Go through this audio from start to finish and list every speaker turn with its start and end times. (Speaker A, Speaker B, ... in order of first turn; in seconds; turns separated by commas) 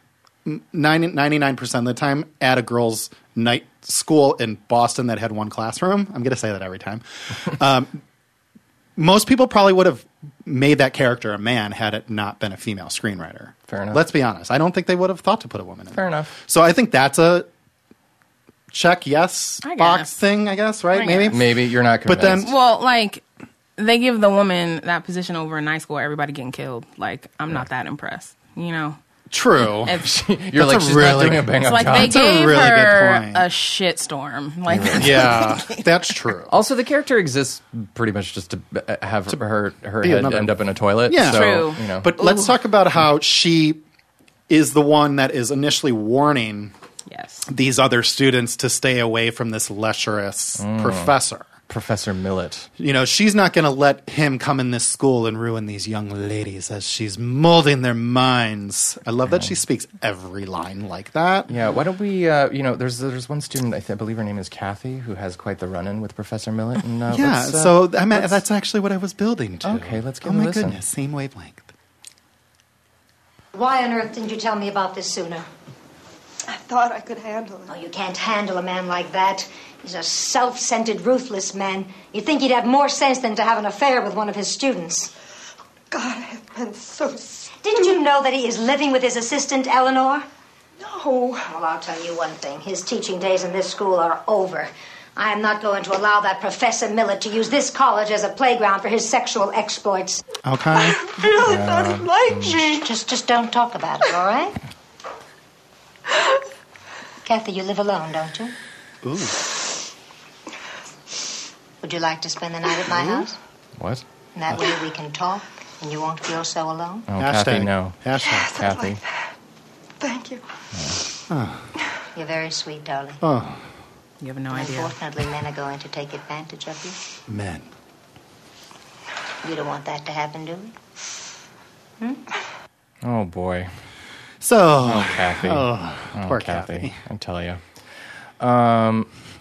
Speaker A: 0.4-8.0, Speaker A: 8.9-17.5, Speaker B: 13.7-14.0, Speaker B: 15.9-16.3, Speaker A: 18.7-22.5, Speaker C: 19.6-20.2, Speaker C: 20.9-21.4, Speaker B: 21.3-22.5, Speaker C: 22.4-23.2, Speaker C: 23.8-29.0, Speaker A: 29.3-30.0, Speaker C: 29.8-30.1, Speaker B: 29.9-32.2, Speaker A: 30.5-33.4, Speaker C: 31.6-35.9, Speaker B: 34.7-35.5, Speaker A: 34.9-36.5, Speaker B: 36.5-42.2, Speaker A: 40.0-43.8, Speaker C: 41.2-41.8, Speaker A: 44.5-46.7, Speaker C: 47.1-47.5, Speaker A: 47.5-51.5, Speaker B: 50.6-51.1, Speaker B: 51.7-52.7, Speaker A: 52.8-61.5, Speaker B: 61.5-68.4, Speaker A: 67.1-71.7, Speaker B: 69.6-70.8, Speaker D: 73.5-75.5, Speaker E: 76.5-77.6, Speaker D: 77.7-85.1, Speaker E: 85.9-87.4, Speaker D: 87.5-90.3, Speaker E: 90.8-91.3, Speaker D: 91.4-100.2, Speaker A: 100.4-101.0, Speaker B: 101.3-102.7, Speaker E: 101.4-102.3, Speaker D: 102.3-104.6, Speaker D: 107.2-108.5, Speaker A: 109.0-109.4, Speaker D: 111.8-113.4, Speaker B: 113.8-114.0, Speaker D: 114.3-117.1, Speaker B: 117.1-119.0, Speaker A: 117.2-118.6, Speaker E: 120.0-120.4, Speaker B: 120.7-121.0, Speaker A: 121.3-121.7, Speaker D: 122.1-123.2, Speaker A: 123.2-123.6, Speaker C: 124.2-125.0, Speaker D: 124.5-127.0, Speaker A: 127.3-127.7, Speaker D: 129.4-130.7, Speaker B: 133.0-133.7, Speaker A: 134.4-137.0, Speaker B: 134.8-137.6, Speaker B: 138.4-139.1